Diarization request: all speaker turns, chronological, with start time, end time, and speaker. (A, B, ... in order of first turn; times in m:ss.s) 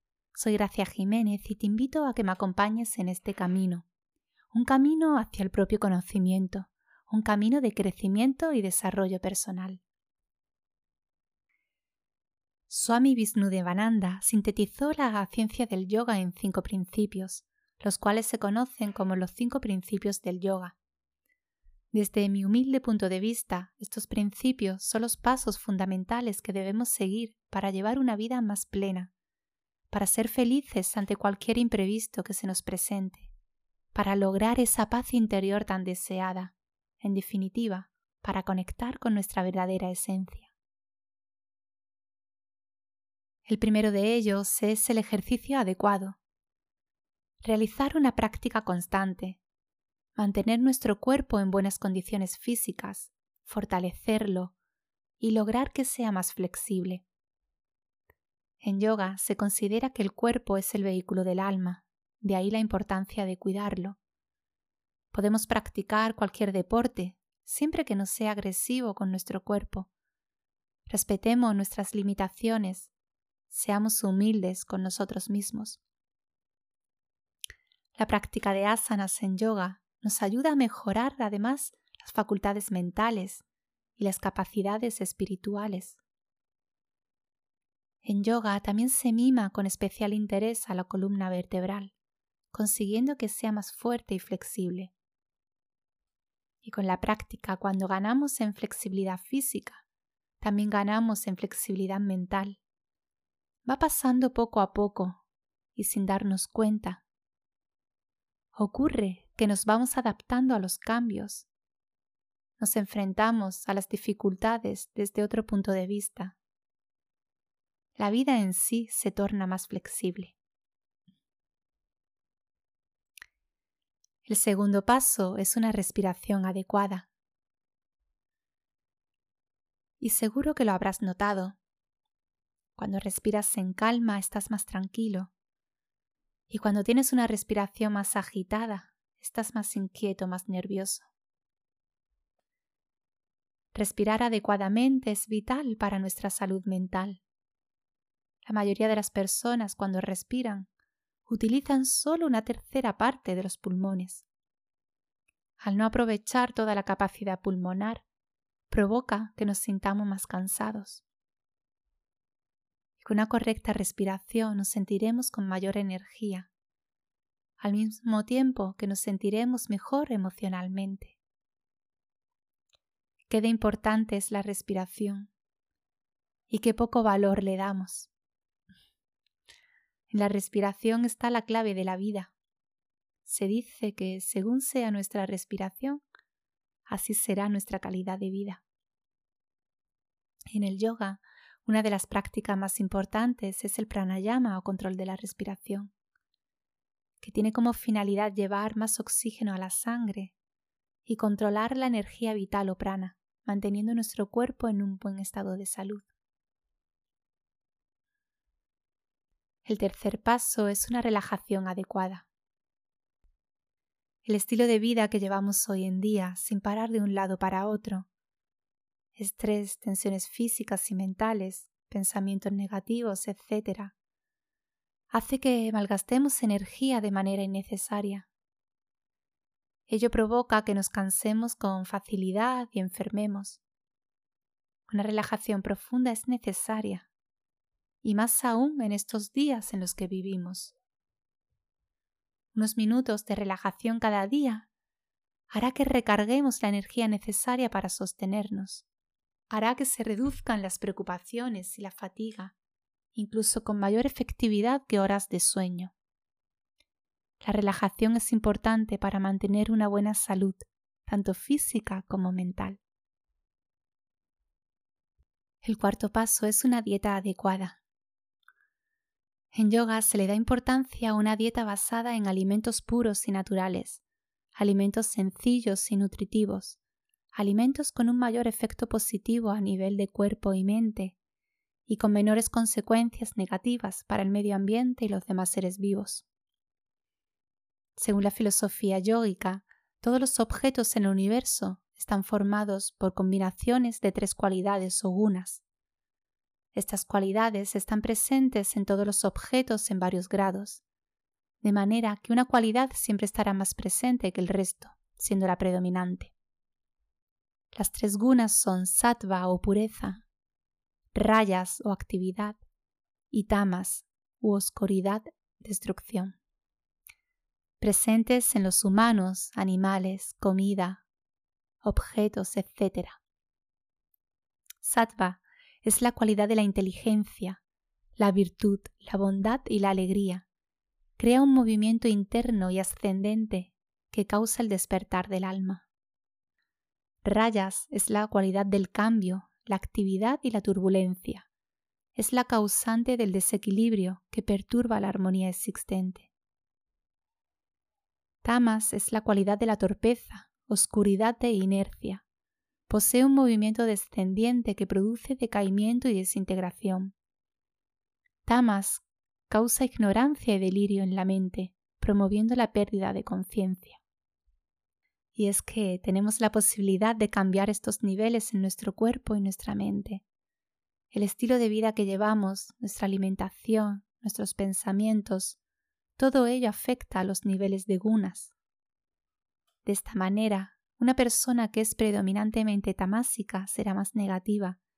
0:00.3-0:03.8 A
0:04.5-0:09.8 A
0:12.7-0:20.8 A
0:21.9-0:29.1 A
0:29.9-0:33.3 A
0:33.9-0:40.5 A
0:43.4-0:46.2 A
0:47.4-0:49.4 A
0:50.2-0:54.5 A
0:55.2-0:57.0 A
0:58.6-1:04.0 A
1:05.1-1:09.9 A
1:10.9-1:12.9 A
1:13.5-1:15.8 A
1:18.0-1:23.4 A
1:24.0-1:26.0 A
1:28.0-1:31.9 A
1:32.5-1:34.9 A
1:36.6-1:39.8 A
1:40.4-1:42.6 A
1:43.6-1:45.2 A
1:45.8-1:47.0 A
1:48.5-1:51.5 A
1:52.6-1:56.4 A
1:58.0-2:00.4 A
2:04.2-2:07.1 A
2:10.0-2:11.5 A
2:12.8-2:15.3 A
2:16.5-2:21.1 A
2:23.7-2:27.2 A
2:28.4-2:30.7 A
2:31.3-2:34.2 A
2:35.6-2:38.0 A
2:38.7-2:41.0 A
2:43.0-2:46.5 A
2:47.6-2:51.2 A
2:53.3-2:55.3 A
2:56.5-2:58.1 A
3:00.1-3:02.3 A
3:03.2-3:06.0 A
3:06.9-3:08.6 A
3:10.5-3:15.9 A
3:17.2-3:20.3 A
3:21.0-3:26.1 A
3:29.6-3:32.3 A
3:34.2-3:38.1 A
3:39.2-3:43.9 A
3:45.1-3:48.3 A
3:49.9-3:53.6 A
3:54.9-3:57.1 A
3:58.0-4:00.7 A
4:02.5-4:04.7 A
4:05.5-4:08.8 A
4:09.5-4:12.5 A
4:13.1-4:15.9 A
4:17.4-4:22.8 A
4:25.6-4:27.8 A
4:29.5-4:34.0 A
4:34.6-4:36.8 A
4:37.3-4:41.2 A
4:41.9-4:46.2 A
4:48.0-4:55.6 A
4:56.7-5:00.8 A
5:01.6-5:06.3 A
5:07.7-5:10.2 A
5:11.1-5:12.6 A
5:13.3-5:16.4 A
5:17.8-5:21.0 A
5:21.8-5:23.2 A
5:24.8-5:27.6 A
5:28.2-5:30.4 A
5:31.2-5:35.8 A
5:37.2-5:41.5 A
5:42.2-5:46.3 A
5:48.4-5:52.2 A
5:52.9-5:57.1 A
5:58.4-6:04.0 A
6:05.4-6:10.2 A
6:11.1-6:15.6 A
6:16.2-6:18.5 A
6:19.8-6:24.8 A